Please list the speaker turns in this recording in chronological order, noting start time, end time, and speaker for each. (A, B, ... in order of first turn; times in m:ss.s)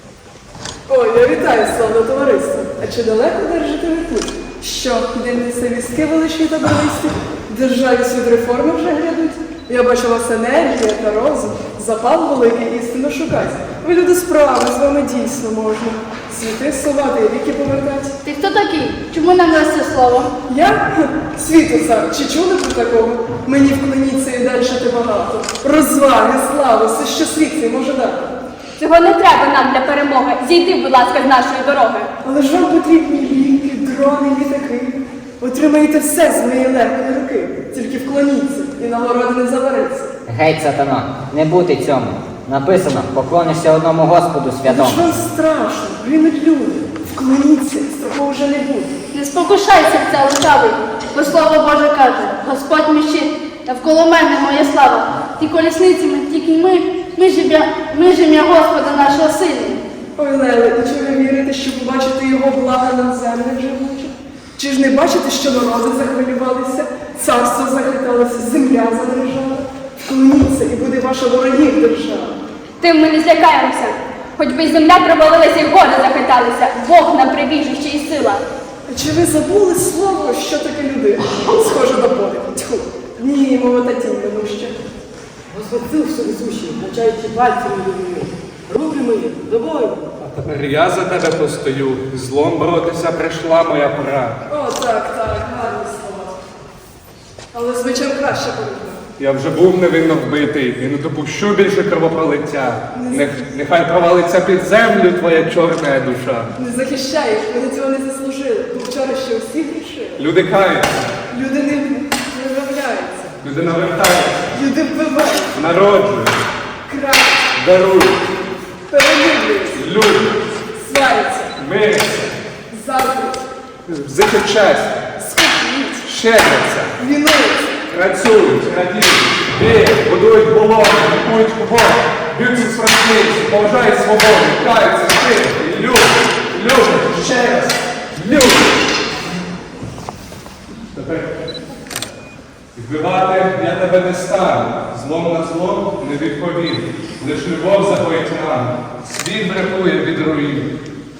0:00.9-0:18.1 A
0:18.2-0:20.3 B
0:20.5-0:28.3 A
0:28.8-0:32.1 C
0:32.2-0:40.1 A
0:40.3-0:45.0 D
0:44.6-0:48.9 A
0:49.1-0:59.8 B
1:00.2-1:12.4 A
1:12.8-1:18.4 C
1:18.9-1:24.8 A
1:25.5-1:30.0 E
1:30.2-1:34.4 F
1:34.5-1:36.3 A
1:37.5-1:39.0 A
1:39.2-1:46.5 F
1:42.9-1:43.2 A
1:46.6-1:50.2 A
1:50.2-1:51.1 F
1:51.3-1:53.3 A
1:53.4-1:54.5 F
1:54.5-1:55.6 A
1:55.5-1:56.4 F
1:56.9-1:57.4 A
1:57.6-1:58.2 F
1:58.9-1:59.8 A
1:59.7-2:00.4 F
2:00.7-2:01.5 A
2:01.6-2:02.3 F
2:02.7-2:03.4 A
2:03.9-2:05.0 F
2:05.2-2:06.0 A
2:06.0-2:06.9 F
2:07.0-2:07.7 A
2:07.9-2:18.7 F
2:20.9-2:21.3 F
2:22.7-2:30.7 F